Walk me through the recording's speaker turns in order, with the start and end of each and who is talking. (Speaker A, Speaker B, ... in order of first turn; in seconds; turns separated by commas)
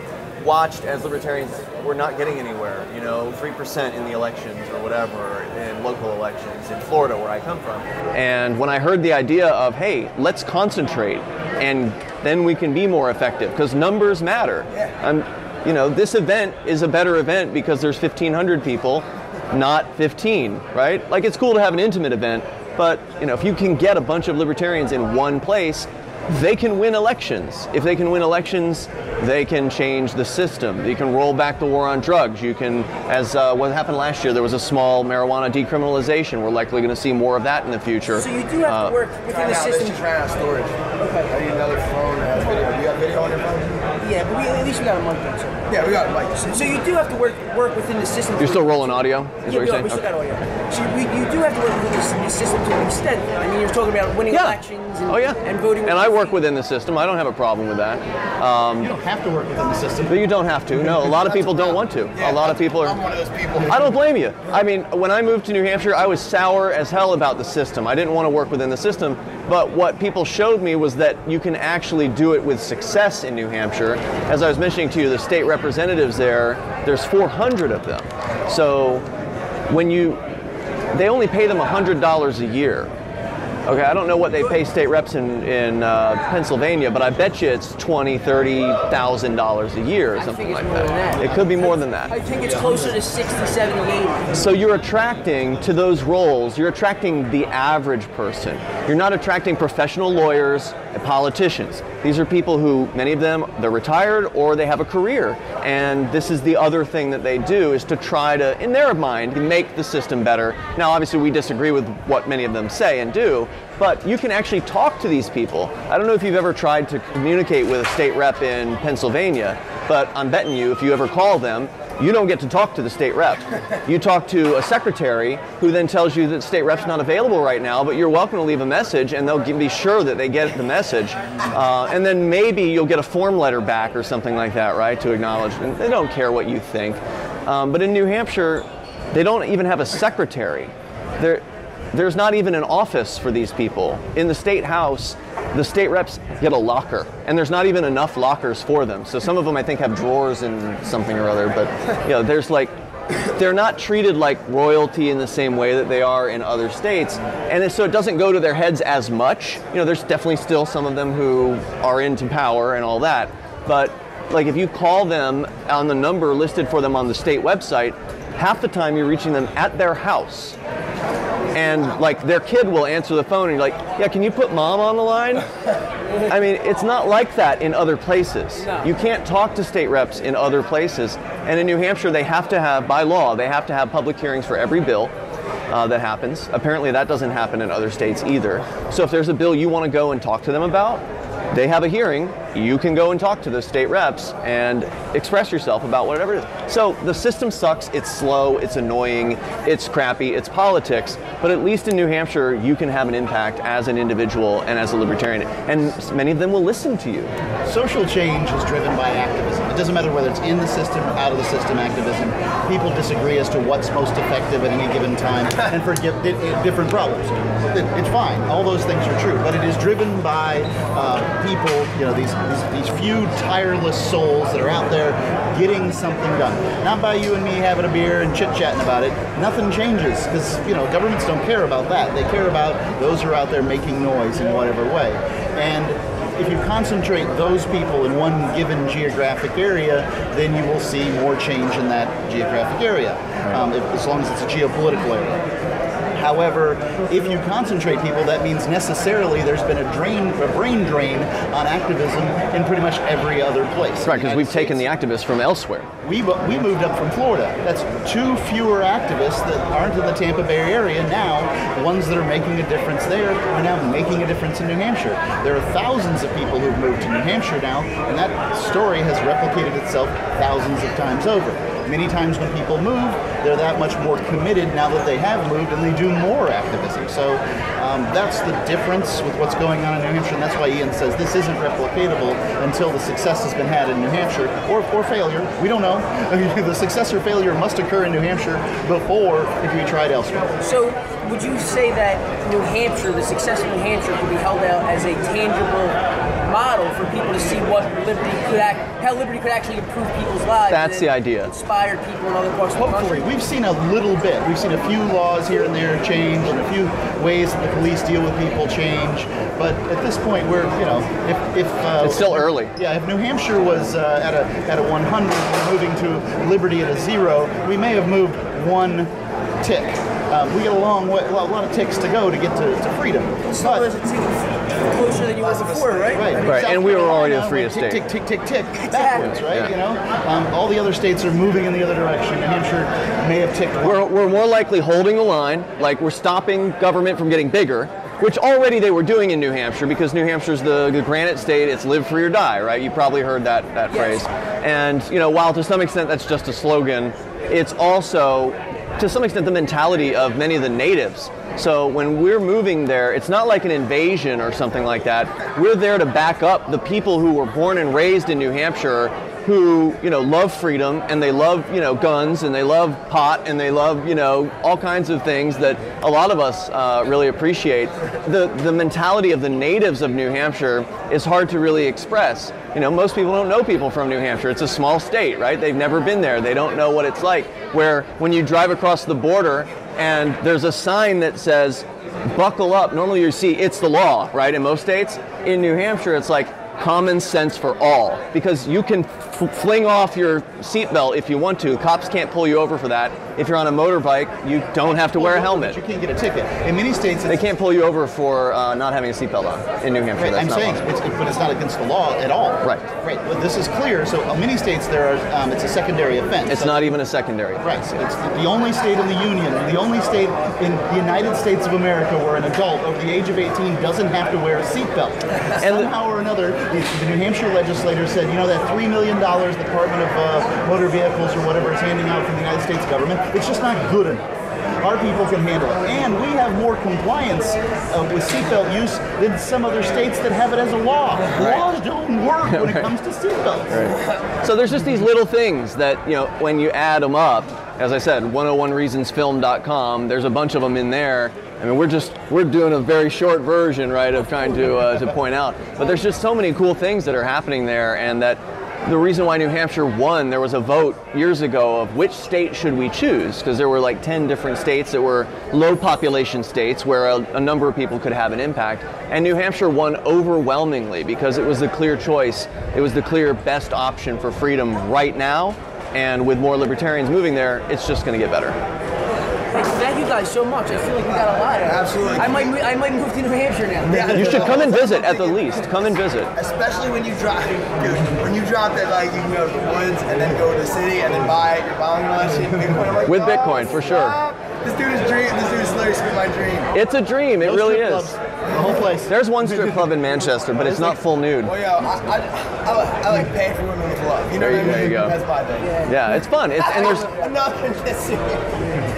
Speaker A: 0.4-39.0, Speaker B: 38.2-40.0, Speaker C: 39.3-40.8, Speaker B: 41.0-41.3, Speaker C: 41.3-43.9, Speaker B: 44.0-45.7, Speaker C: 45.7-46.7, Speaker B: 46.5-56.4, Speaker A: 48.4-50.0, Speaker A: 54.3-58.9, Speaker D: 58.8-60.3, Speaker A: 60.1-63.0, Speaker D: 60.8-61.1, Speaker C: 61.2-64.0, Speaker A: 63.7-79.0, Speaker A: 79.7-80.2, Speaker A: 80.9-82.9, Speaker A: 83.7-92.1, Speaker B: 90.2-94.4, Speaker A: 94.3-170.6, Speaker A: 171.5-175.5, Speaker A: 176.2-185.1, Speaker A: 185.7-207.3, Speaker D: 207.7-245.4, Speaker D: 246.1-254.9, Speaker A: 254.0-255.9, Speaker D: 256.0-290.5, Speaker B: 290.6-303.3, Speaker A: 300.7-301.5, Speaker D: 302.8-319.1, Speaker A: 312.0-312.7, Speaker D: 319.6-323.9, Speaker B: 323.5-326.4, Speaker C: 325.4-326.2, Speaker D: 326.1-334.0, Speaker A: 326.4-328.0, Speaker B: 328.8-329.3, Speaker A: 329.2-329.7, Speaker A: 333.8-395.8, Speaker D: 395.1-397.4, Speaker A: 397.3-400.8, Speaker D: 400.2-407.0, Speaker A: 406.5-407.8, Speaker D: 407.6-433.9, Speaker A: 415.6-415.9, Speaker A: 431.4-431.6, Speaker A: 432.4-432.9, Speaker A: 433.7-468.6, Speaker B: 469.5-474.4, Speaker C: 471.6-472.5, Speaker C: 473.8-475.7, Speaker A: 474.1-476.3, Speaker C: 476.3-486.7, Speaker A: 483.1-484.1, Speaker A: 486.7-488.1, Speaker D: 487.4-489.9, Speaker A: 489.1-491.5, Speaker D: 490.6-491.0, Speaker C: 491.4-495.9, Speaker A: 494.4-495.2, Speaker A: 495.8-497.1, Speaker C: 496.6-498.6